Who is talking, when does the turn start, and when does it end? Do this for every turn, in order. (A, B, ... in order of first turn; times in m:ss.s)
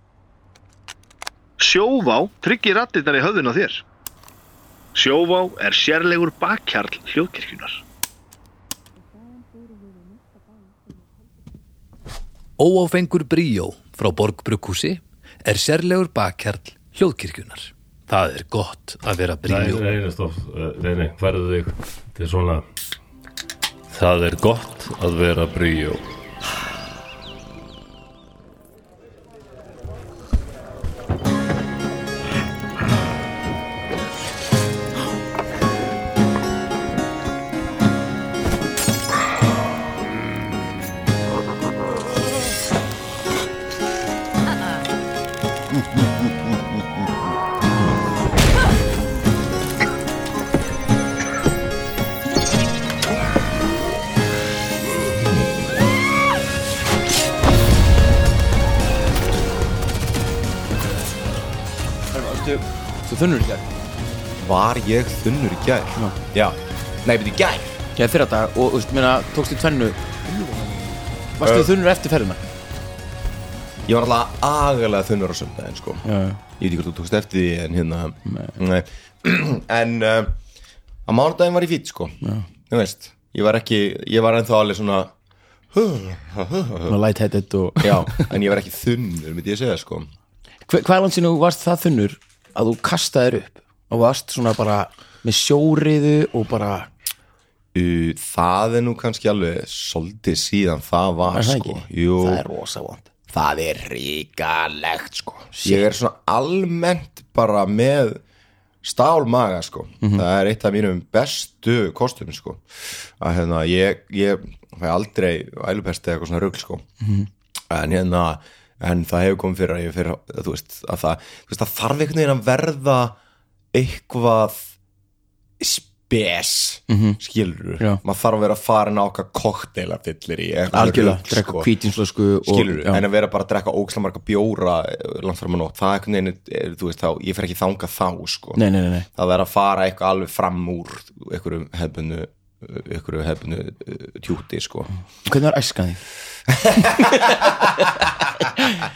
0:01.6-0:03.8 A
0:05.0-0:07.6 B
0:05.1-0:07.7 A
0:12.6-0:19.8 B
0:19.4-0:22.6 C
0:23.9-0:26.0 C
1:02.1-1:03.7 D
1:04.4-1:07.8 E
1:08.0-1:12.4 D
1:11.4-1:11.7 E
1:13.9-1:16.0 E
1:16.0-1:16.4 D
1:16.6-1:20.4 E
1:18.3-1:18.6 D
1:21.1-1:22.2 E
1:22.7-1:25.1 E
1:25.7-1:27.0 E
1:26.9-1:28.3 D
1:27.8-1:30.1 E
1:30.6-1:36.9 D
1:37.7-1:42.4 E
1:41.3-1:43.1 D
1:43.3-1:48.2 E
1:45.5-1:45.8 D
1:48.8-1:56.8 E
1:57.0-1:57.3 D
1:57.7-2:03.2 E
2:03.7-2:04.7 E
2:05.6-2:11.7 E
2:06.9-2:07.2 D
2:10.7-2:13.0 D
2:12.4-2:24.9 E
2:18.6-2:19.1 D
2:25.3-2:26.0 D
2:26.5-2:27.9 E